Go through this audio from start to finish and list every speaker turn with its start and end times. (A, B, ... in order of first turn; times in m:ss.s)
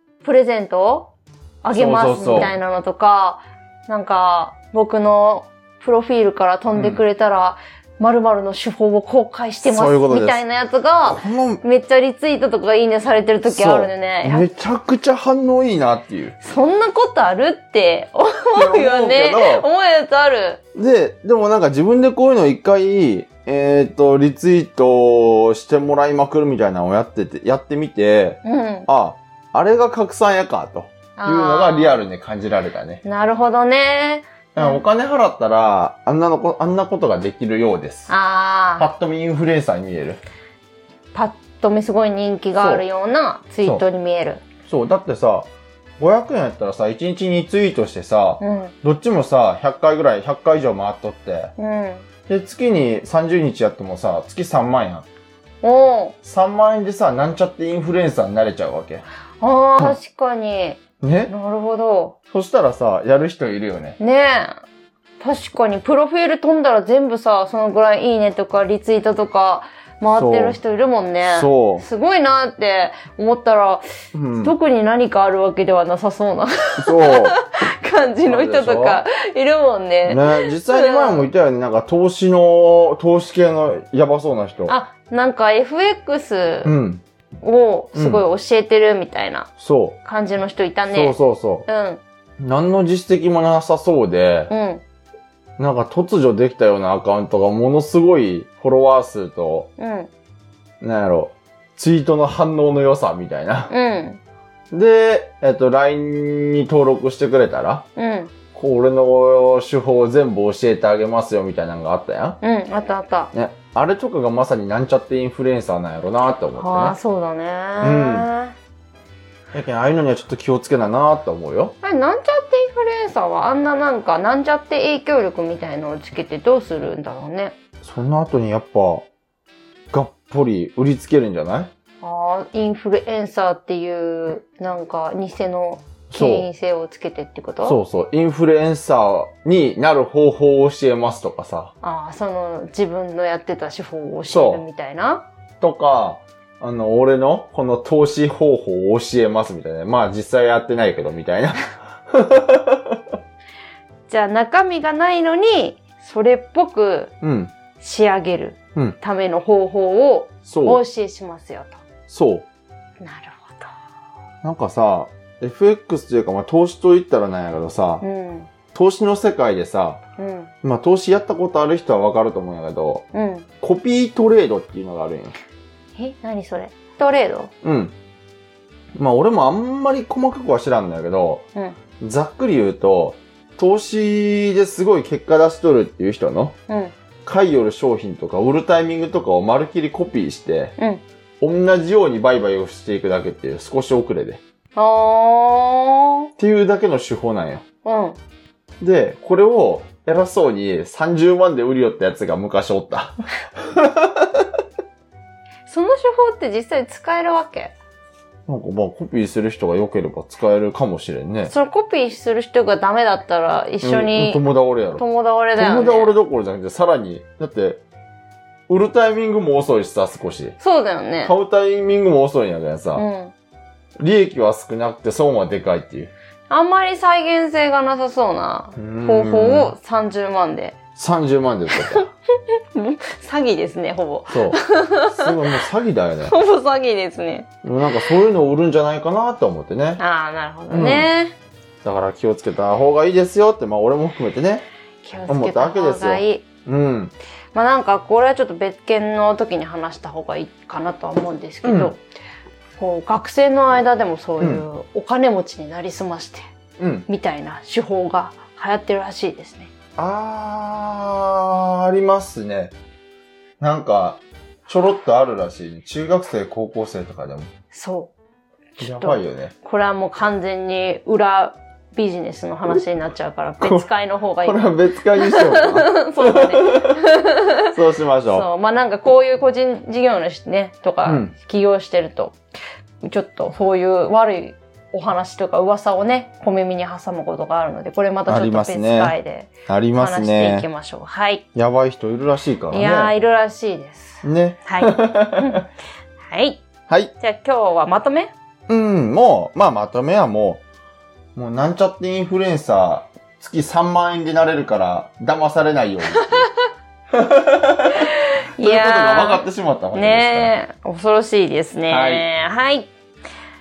0:00.2-0:14.4 A
0:01.7-0:02.5 B
0:06.8-0:07.0 B
0:09.6-0:10.4 B
0:11.0-0:11.6 B
0:13.4-0:16.4 B
0:16.4-0:20.6 A
0:18.5-0:19.7 B
0:20.7-0:33.0 B
0:28.4-0:28.9 A
0:31.2-0:32.0 A
0:33.0-0:34.8 A
0:34.5-0:38.1 B
0:38.1-0:38.9 A
0:38.8-0:40.2 B
0:41.1-0:44.4 A
0:42.6-0:42.8 B
0:44.7-0:51.5 B
0:48.4-0:48.7 A
0:51.6-0:52.0 A
0:52.3-0:55.0 B
0:55.6-0:56.2 A
0:56.2-0:59.0 B
0:59.4-1:02.1 A
1:01.0-1:01.3 B
1:02.3-1:04.0 B
1:04.0-1:04.6 A
1:05.2-1:13.8 A
1:10.1-1:10.6 B
1:11.2-1:11.8 B
1:14.1-1:14.5 B
1:14.4-1:21.3 A
1:16.8-1:17.4 B
1:18.2-1:19.0 B
1:20.1-1:24.7 B
1:24.7-1:26.7 A
1:26.6-1:27.0 B
1:27.4-1:29.5 A
1:27.9-1:28.2 B
1:29.6-1:30.0 B
1:30.0-1:32.0 A
1:30.9-1:31.7 B
1:32.4-1:34.5 B
1:34.5-1:34.8 A
1:35.6-1:39.7 B
1:39.8-1:40.1 A
1:40.8-1:43.7 B
1:43.7-1:44.2 A
1:44.7-1:47.8 B
1:48.0-1:48.3 A
1:48.5-1:52.4 B
1:52.4-1:53.3 A
1:53.3-1:57.0 B
1:56.5-1:58.5 A
1:57.8-1:58.3 B
1:59.5-2:01.7 B
2:01.8-2:07.5 A
2:07.8-2:09.0 B
2:09.9-2:11.7 B
2:12.0-2:17.8 A
2:16.1-2:16.5 B
2:17.6-2:21.7 B
2:21.8-2:25.2 A
2:24.3-2:24.6 B
2:25.6-2:33.0 B
2:34.1-2:37.1 A
2:37.2-2:37.5 B
2:37.8-2:41.8 A
2:40.4-2:40.8 B
2:42.1-2:42.4 B
2:43.0-2:43.7 A
2:44.4-2:48.0 B
2:48.0-2:48.5 A
2:48.7-2:50.0 B
2:50.2-2:50.5 A
2:50.6-2:53.0 B
2:53.1-2:53.5 A
2:53.6-2:55.4 B
2:55.9-2:57.5 A
2:57.6-2:57.9 B
2:59.0-3:01.4 B
3:02.0-3:06.5 B
3:06.7-3:06.9 A
3:07.2-3:10.7 B
3:10.8-3:11.0 A
3:11.4-3:14.4 B
3:14.8-3:16.3 A
3:16.4-3:17.6 B
3:17.8-3:18.2 A
3:18.8-3:24.5 B
3:25.7-3:27.7 A
3:28.5-3:31.5 B
3:31.5-3:34.4 A
3:33.8-3:35.0 B
3:35.0-3:36.1 A
3:35.6-3:37.8 B
3:38.7-3:40.6 B
3:40.6-3:41.3 A
3:41.2-3:43.0 B
3:42.9-3:43.3 A
3:44.0-3:46.1 B
3:46.5-3:50.7 A
3:48.8-3:49.7 B
3:51.0-3:52.1 B
3:51.7-3:52.0 A
3:52.7-3:55.6 A
3:54.3-3:56.3 B
3:56.2-3:57.5 A
3:57.6-4:00.0 B
4:00.0-4:01.3 A
4:00.7-4:01.1 B
4:01.8-4:04.6 B
4:05.0-4:06.4 A
4:05.3-4:07.1 B
4:07.5-4:12.0 A
4:11.6-4:11.9 B
4:12.8-4:16.4 A
4:14.4-4:14.6 B
4:16.8-4:17.1 B
4:17.1-4:19.7 A
4:20.0-4:22.7 B
4:23.6-4:27.5 B
4:27.7-4:28.1 A
4:28.8-4:37.7 A
4:28.8-4:29.5 B
4:33.6-4:33.9 B
4:34.4-4:37.0 B
4:37.7-4:38.4 B
4:38.3-4:42.4 A
4:41.0-4:41.3 B
4:43.0-4:51.4 A
4:48.3-4:49.1 B
4:49.6-4:50.7 B
4:51.5-4:53.1 B
4:52.7-4:55.6 A
4:54.2-4:55.6 B
4:56.2-4:56.6 A
4:56.9-4:57.1 B
4:57.2-4:58.3 A
4:58.7-5:00.6 B
5:01.4-5:06.5 B
5:07.1-5:10.5 B
5:08.0-5:12.9 A
5:11.9-5:12.3 B